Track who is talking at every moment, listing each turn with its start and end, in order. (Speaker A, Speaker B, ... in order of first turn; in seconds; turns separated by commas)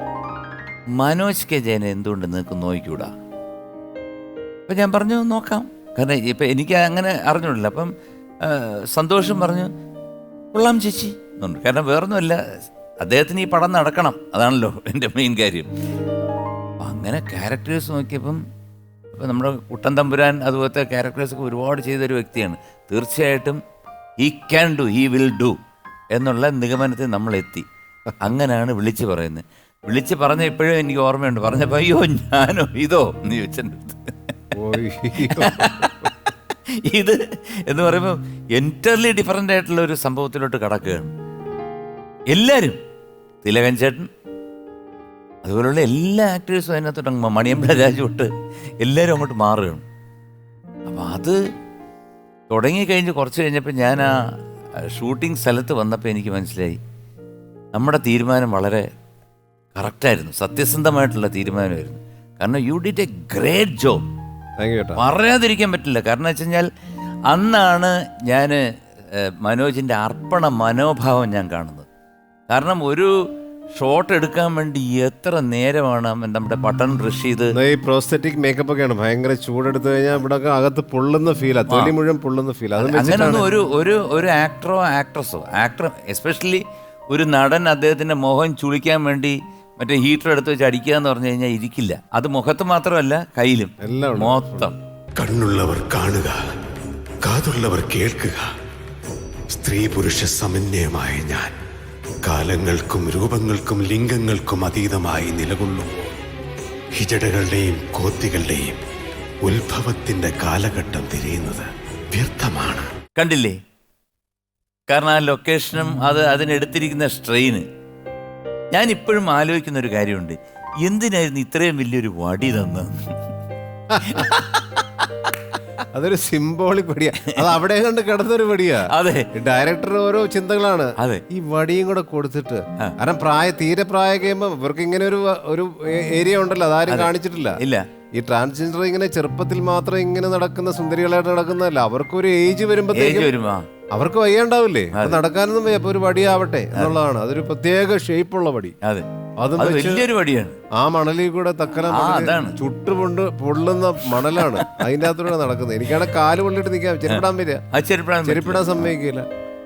Speaker A: 1.0-3.1, Speaker A: 4.7-7.9, Speaker A: 8.4-9.7, Speaker A: 10.5-12.4, Speaker A: 13.0-15.7, Speaker A: 16.8-18.4, Speaker A: 19.1-23.6, Speaker A: 24.2-25.6, Speaker A: 26.1-27.6, Speaker A: 28.2-34.1, Speaker B: 34.5-36.1, Speaker A: 35.3-41.1, Speaker A: 42.3-42.8, Speaker A: 43.4-44.1, Speaker A: 45.4-48.3, Speaker A: 48.8-49.8, Speaker A: 50.9-51.4, Speaker A: 52.5-54.1, Speaker A: 54.8-56.8, Speaker A: 57.7-58.9, Speaker A: 59.7-64.0, Speaker B: 64.6-65.0, Speaker A: 65.0-66.7, Speaker A: 67.3-71.9, Speaker A: 72.5-73.1, Speaker A: 73.8-77.5, Speaker B: 77.5-83.5, Speaker A: 82.8-94.7, Speaker B: 93.8-94.7, Speaker C: 95.2-96.4, Speaker C: 97.2-98.5, Speaker C: 99.5-101.5, Speaker C: 102.2-105.9, Speaker C: 106.9-108.8, Speaker C: 109.4-112.9, Speaker A: 113.1-113.6, Speaker A: 114.9-117.6, Speaker A: 118.7-123.1, Speaker B: 123.9-124.3, Speaker A: 124.0-125.3, Speaker B: 125.9-137.6, Speaker A: 128.9-129.3, Speaker A: 136.9-137.8, Speaker B: 138.2-143.3, Speaker A: 142.9-143.6, Speaker B: 143.9-148.7, Speaker A: 144.9-145.2, Speaker B: 149.4-150.1, Speaker A: 149.6-150.6, Speaker B: 150.8-157.6, Speaker A: 151.9-152.6, Speaker A: 154.2-154.7, Speaker A: 157.1-158.9, Speaker B: 158.2-159.2